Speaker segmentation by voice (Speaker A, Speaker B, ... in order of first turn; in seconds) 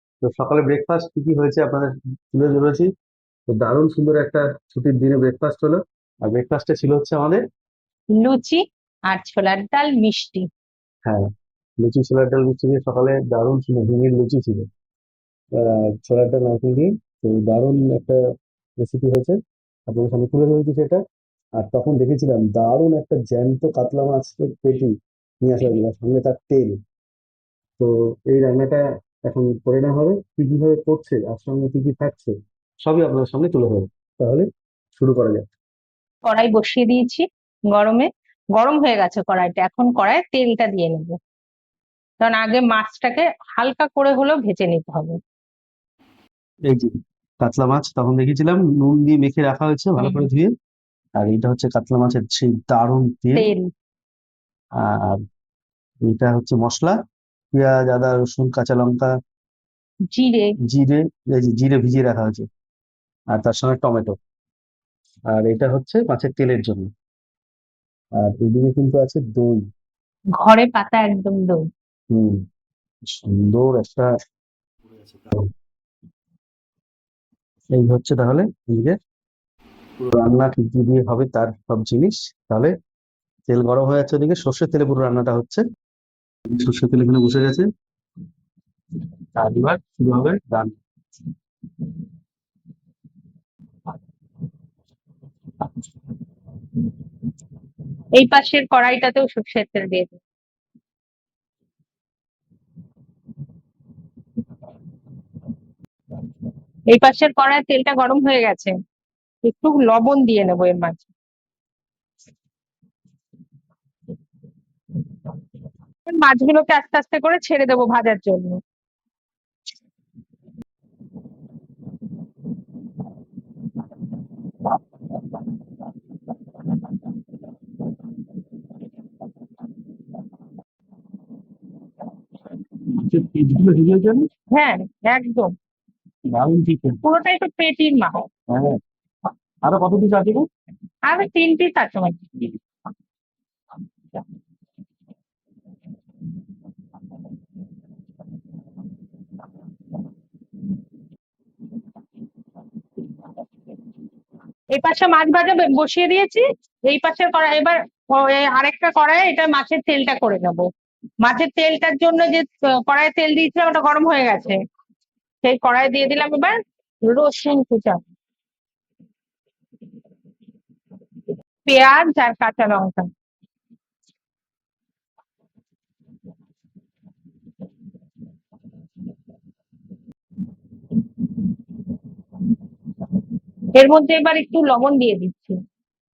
Speaker A: 0.2-2.9, 3.5-7.4, 11.8-14.7, 15.6-18.2, 18.8-21.0, 21.6-26.8, 27.8-35.5, 46.7-50.5, 51.2-53.5, 54.8-55.2, 56.1-57.0, 57.5-59.1, 60.6-62.5, 63.3-64.2, 65.3-66.9, 68.2-69.7, 72.1-72.5, 73.1-74.1, 74.8-75.5, 77.8-79.0, 80.0-82.7, 83.5-85.6, 86.5-87.7, 89.4-90.8, 132.9-134.3, 136.3-137.0, 138.5-138.8, 139.6-140.5
Speaker B: 8.2-10.5, 36.3-41.2, 42.2-45.2, 50.0-50.2, 53.4-53.7, 60.1-60.5, 70.4-71.6, 98.2-100.2, 106.9-108.7, 109.4-111.1, 116.1-118.6, 134.5-135.5, 137.0-138.2, 141.1-142.2, 154.7-160.7, 161.2-164.6, 165.4-168.0, 171.7-173.1, 183.8-185.6